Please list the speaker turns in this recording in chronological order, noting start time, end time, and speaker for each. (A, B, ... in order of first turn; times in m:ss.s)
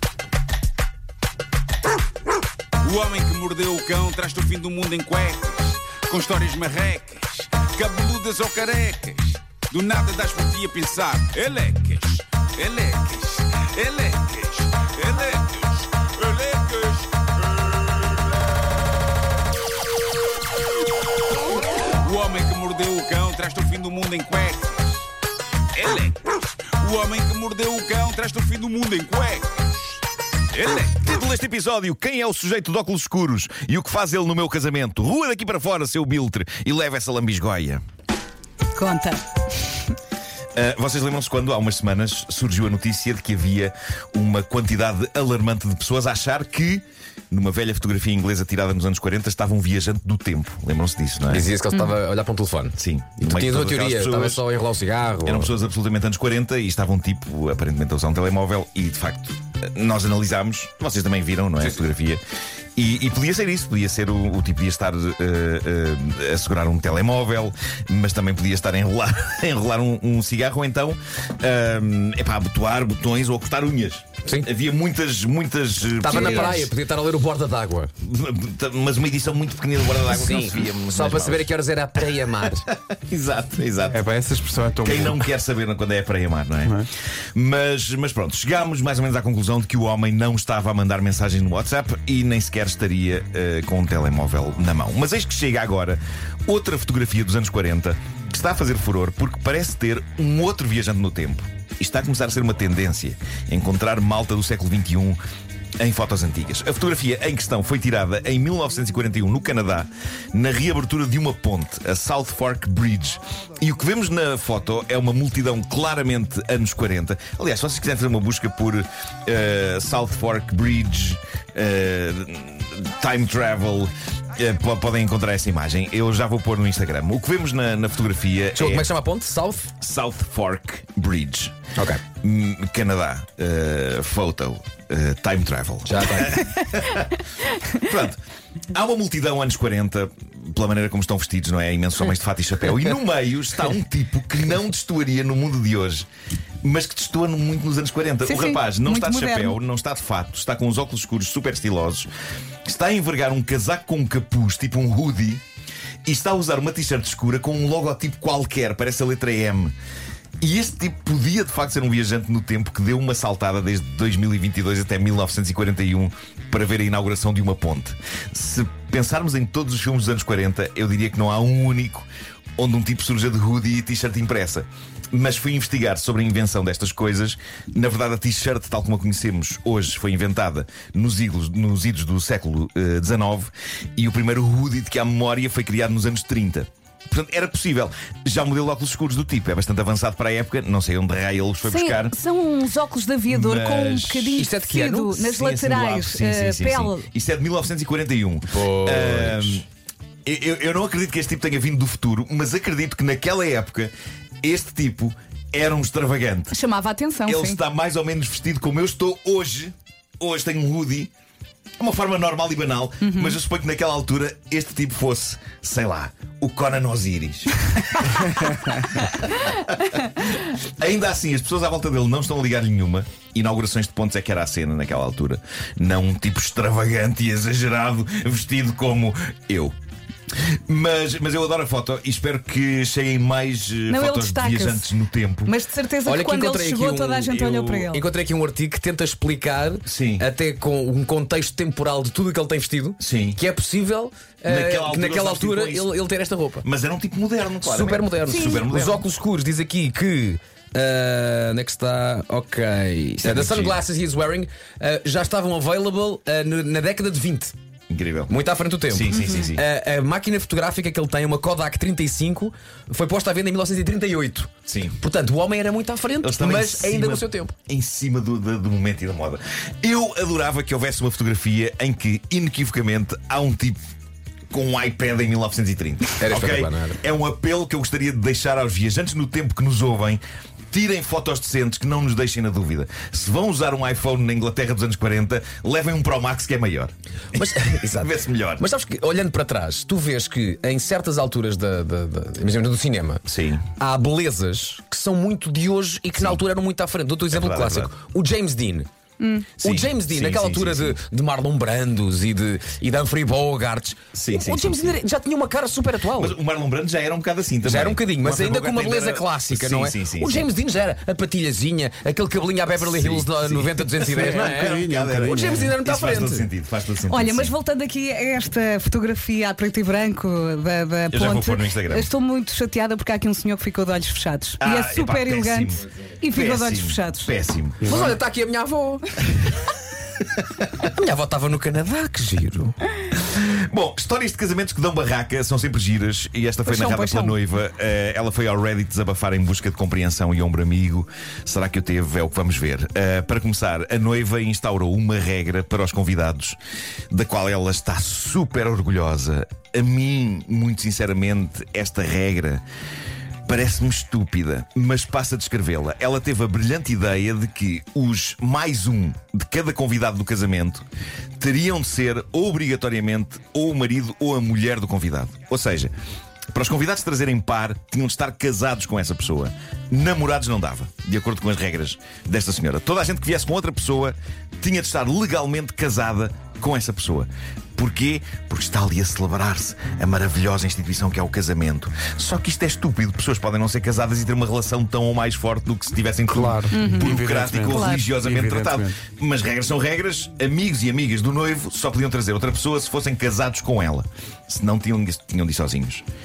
0:02.8-0:18.1 A
0:22.0-0:25.1 A
0:25.7-0:30.0 A
0:30.5-0:31.1 A
0:31.0-0:37.8 B
0:38.7-0:39.8 C
0:40.5-0:51.5 B
0:51.3-0:55.5 D
0:52.8-0:54.4 B
0:55.2-1:02.2 B
1:02.8-1:16.7 B
1:16.0-1:17.9 D
1:16.0-1:16.6 C
1:18.0-1:21.5 B
1:20.1-1:22.6 D
1:22.4-1:24.0 B
1:23.9-1:25.2 E
1:24.8-1:45.2 B
1:26.6-1:26.9 E
1:45.8-2:08.9 B
2:08.5-2:09.7 D
2:09.8-2:11.6 B
2:11.8-2:12.0 D
2:12.2-2:18.2 B
2:15.8-2:16.4 D
2:18.7-2:26.1 B
2:26.6-2:32.1 B
2:28.2-2:29.5 C
2:32.6-2:35.4 B
2:36.0-2:39.7 B
2:40.4-3:12.1 B
3:11.6-3:17.1 C
3:13.3-3:14.5 B
3:14.4-3:15.2 D
3:15.1-3:19.6 B
3:18.5-3:19.6 D
3:20.2-3:23.9 B
3:24.4-3:26.6 B
3:26.5-3:27.6 C
3:27.2-3:31.1 B
3:31.8-3:49.7 B
3:33.0-3:33.4 C
3:50.4-3:55.5 B
3:53.9-3:54.8 C
3:55.4-3:58.0 C
3:56.0-4:06.6 D
3:59.8-4:00.3 B
4:03.0-4:03.4 B
4:04.4-4:06.0 B
4:06.6-4:09.0 B
4:07.6-4:17.5 D
4:13.2-4:13.8 B
4:17.9-4:18.3 B
4:18.3-4:27.5 D
4:18.9-4:19.6 B
4:24.7-4:25.0 B
4:26.2-4:33.8 B
4:34.5-4:48.7 B
4:36.2-4:37.0 D
4:47.3-4:53.2 D
4:53.3-4:53.7 B
4:53.8-4:58.9 D
4:56.2-4:56.4 B
4:57.3-4:57.9 B
4:59.2-4:59.5 C
4:59.6-5:06.4 D
4:59.6-5:01.0 B
5:04.1-5:05.0 B
5:06.1-5:10.5 B
5:07.6-5:16.5 D
5:12.8-5:17.5 B
5:14.1-5:15.7 E
5:17.1-5:27.3 C
5:21.1-5:22.1 B
5:24.6-5:25.8 B
5:26.3-5:27.9 B
5:27.8-5:28.1 E
5:27.8-5:29.0 D
5:29.4-5:29.7 B
5:30.2-5:30.7 B
5:30.9-5:32.8 D
5:33.2-5:46.6 B
5:36.6-5:37.4 C
5:47.1-5:52.6 B
5:53.5-6:00.8 B
6:01.4-6:05.9 B
6:06.5-6:36.0 B
6:26.3-6:29.0 E
6:26.7-6:28.0 C